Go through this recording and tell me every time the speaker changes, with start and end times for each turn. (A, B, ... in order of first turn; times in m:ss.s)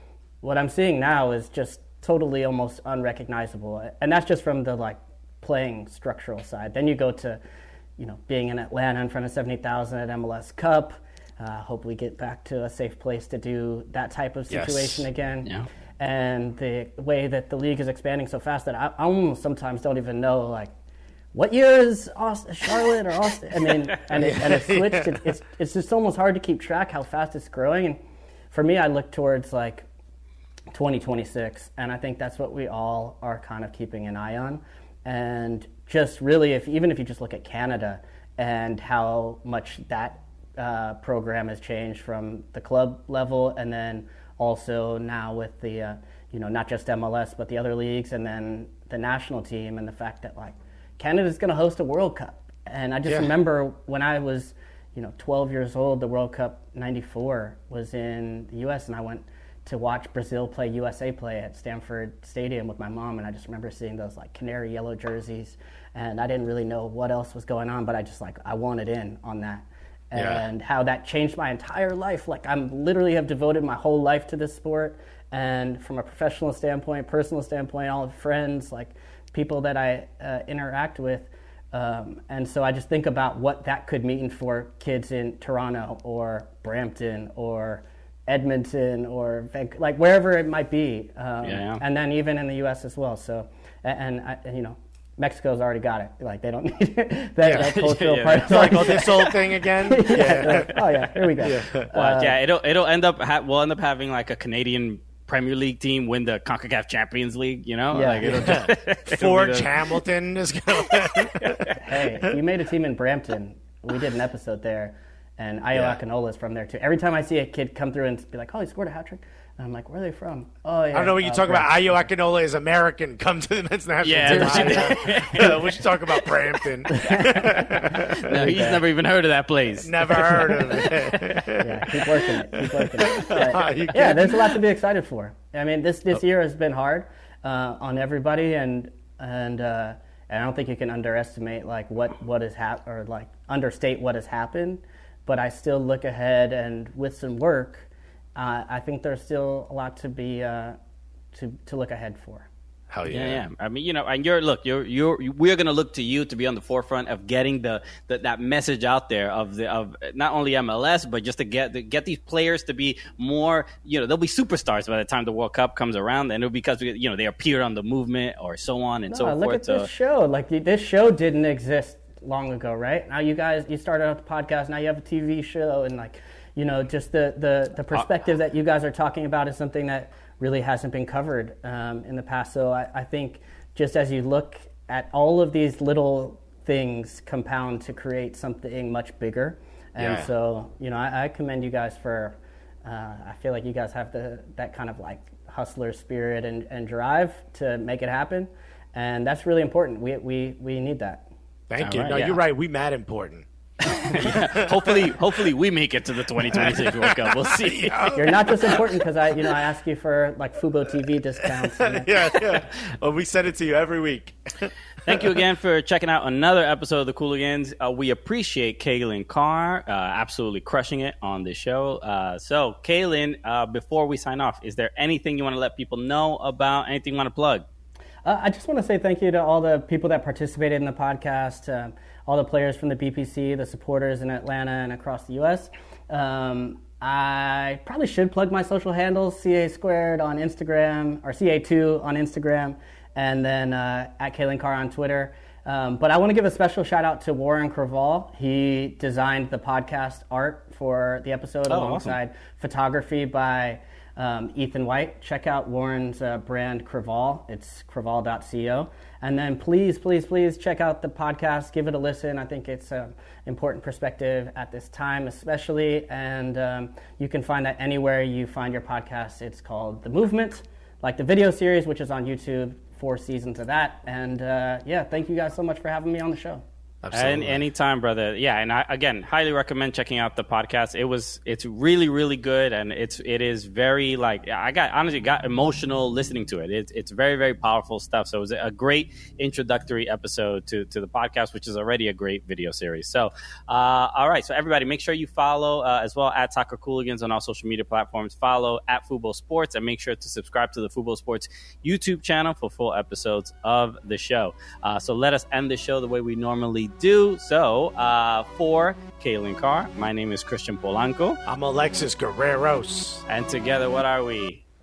0:00.4-0:07.4 A
0:08.0-0:20.7 A
0:14.5-0:15.1 B
0:21.3-0:29.8 A
0:24.2-0:25.2 B
0:30.7-1:42.4 A
0:53.0-0:53.3 B
1:10.1-1:10.4 B
1:31.4-1:31.8 C
1:37.4-1:37.7 B
1:37.5-1:39.1 C
1:38.3-1:40.8 B
1:41.4-1:41.9 B
1:41.9-1:49.9 C
1:47.9-1:48.6 A
1:48.2-1:51.7 B
1:51.7-2:01.8 A
1:55.7-1:56.0 B
2:00.9-2:08.7 B
2:04.0-2:06.4 C
2:04.2-2:05.0 A
2:06.9-2:08.8 A
2:08.2-2:11.3 C
2:09.8-2:12.0 B
2:11.6-2:30.8 A
2:12.6-2:14.6 B
2:31.3-2:32.5 A
2:32.9-2:33.4 B
2:33.1-2:49.9 C
2:49.1-3:21.2 A
3:10.0-3:10.3 B
3:21.7-3:23.4 B
3:21.8-3:22.4 C
3:23.8-3:28.2 C
3:24.1-3:25.1 B
3:26.5-3:29.0 B
3:28.1-3:32.2 A
3:31.8-3:35.4 B
3:35.0-3:47.6 C
3:48.2-4:36.6 A
4:11.7-4:12.2 C
4:37.0-4:37.6 B
4:37.1-5:11.4 C
5:11.4-5:13.2 B
5:13.3-5:14.6 C